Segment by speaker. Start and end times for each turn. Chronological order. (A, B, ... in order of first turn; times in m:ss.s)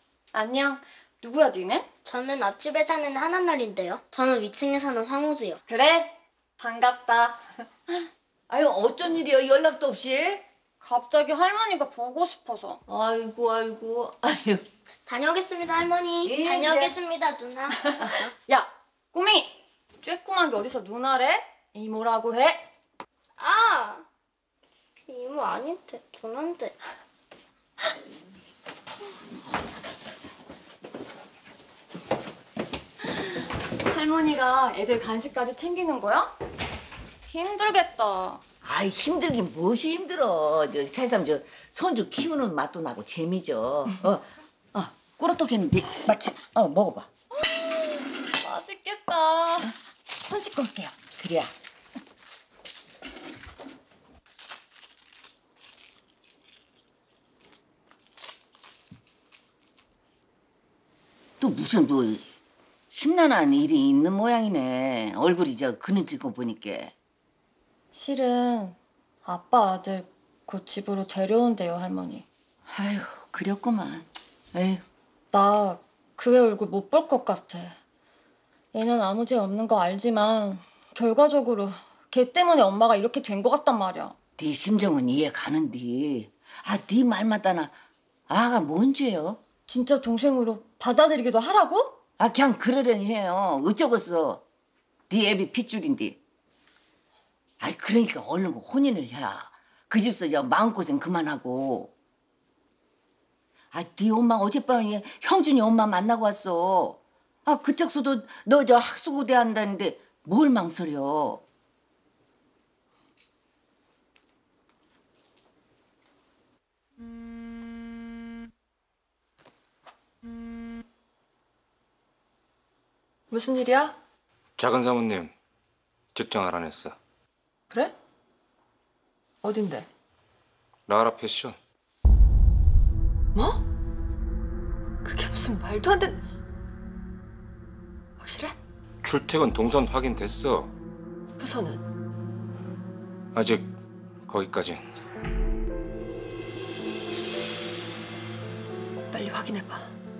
0:00.3-0:01.9 A
0:02.0-0:05.6 B
0:05.7-0:07.4 A
0:08.5-0:10.4 C
0:10.8-0:12.8 A
0:12.9-0:14.6 C
0:15.1-0:18.2 B
0:16.2-0:17.0 C
0:18.0-0:22.6 A
0:23.4-0:24.0 B
0:25.1-0:26.7 B
0:33.1-0:36.3 A
0:37.2-0:38.4 A
0:38.6-0:47.1 C
0:48.3-0:49.7 A
0:50.2-0:50.9 A
0:50.9-0:51.5 C
1:01.4-1:02.2 C
1:02.9-1:07.0 C
1:07.9-1:12.3 A
1:12.7-1:14.8 C
1:15.3-1:17.8 A
1:18.7-1:24.2 A
1:24.4-1:27.7 C
1:28.3-1:29.4 C
1:29.7-1:32.0 A
1:32.2-1:34.4 C
1:35.1-1:36.2 C
1:37.6-1:41.9 C
1:43.7-1:51.4 C
2:03.3-2:04.0 D
2:04.6-2:05.3 E
2:06.1-2:07.0 E
2:09.4-2:09.9 D
2:10.9-2:11.6 E
2:13.3-2:13.6 D
2:15.0-2:16.2 D
2:18.2-2:18.5 D
2:19.0-2:20.7 E
2:21.4-2:21.8 D
2:23.3-2:23.7 E
2:24.3-2:24.8 E
2:29.1-2:29.9 D